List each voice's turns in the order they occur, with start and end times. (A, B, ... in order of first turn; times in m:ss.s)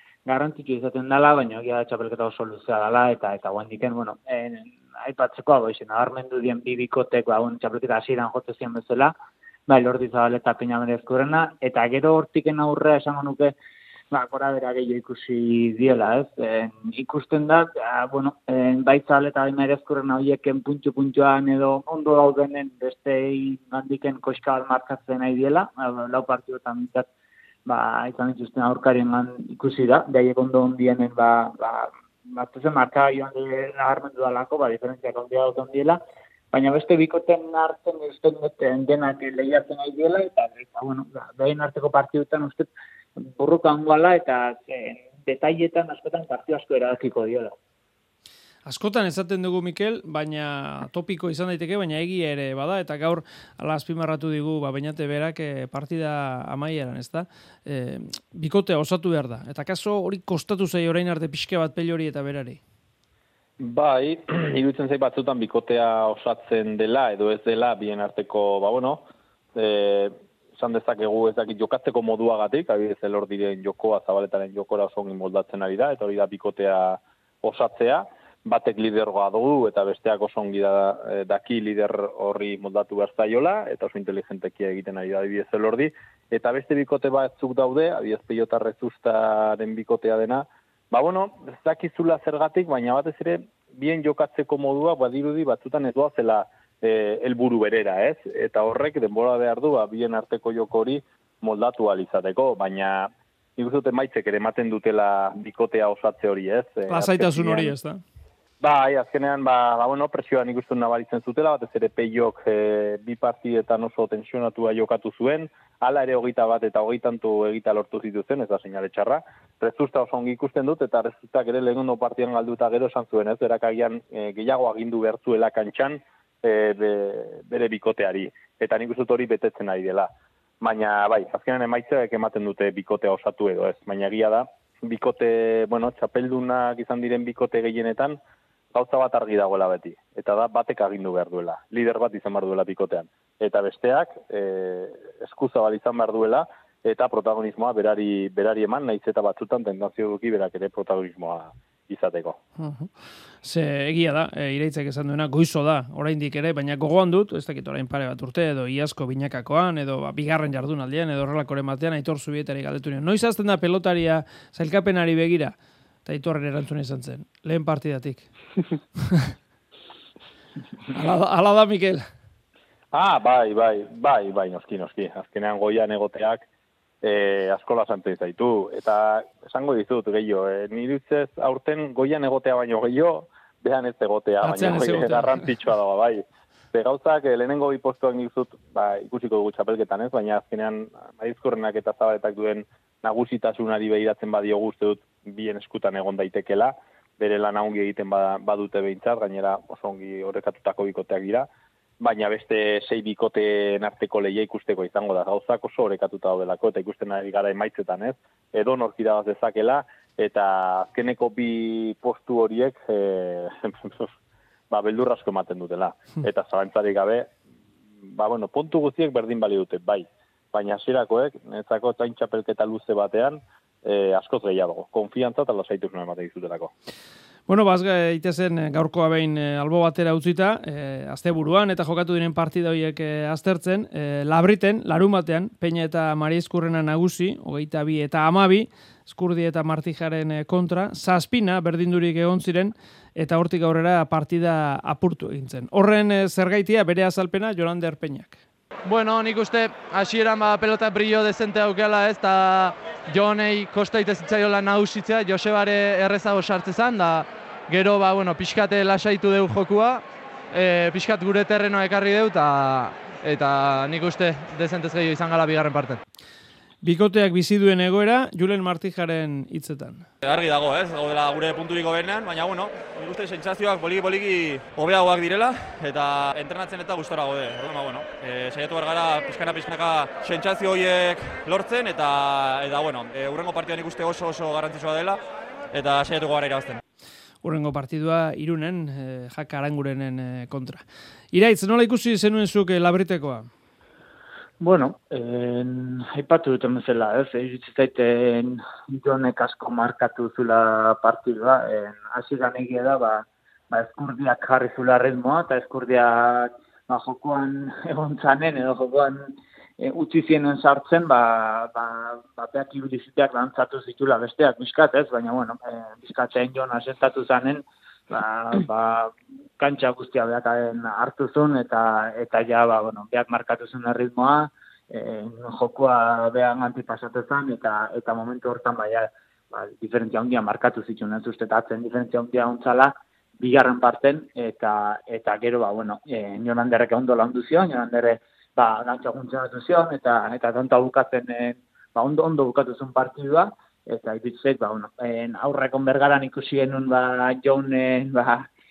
0:00.2-0:09.1 A
0:09.7-0:13.5 A
0:14.1-0:27.1 A
0:27.6-0:36.0 A
0:36.5-0:42.7 A
0:43.2-0:47.5 A
0:48.6-1:02.6 B
1:03.6-1:47.7 C
1:46.9-1:48.0 B
1:48.6-2:10.1 C
2:10.6-2:18.2 C
2:18.7-2:32.4 C
2:32.6-2:32.9 B
2:33.4-2:48.2 B
2:50.9-2:52.0 B
2:52.9-2:56.4 C
2:57.0-3:21.5 C
3:04.4-3:05.2 B
3:22.0-3:34.1 C
3:34.7-3:37.3 C
3:38.0-3:46.7 C
3:47.5-4:08.4 B
4:08.8-4:26.0 D
4:26.8-4:30.0 B
4:30.2-4:46.8 E
4:47.4-4:53.5 B
4:54.6-5:48.5 A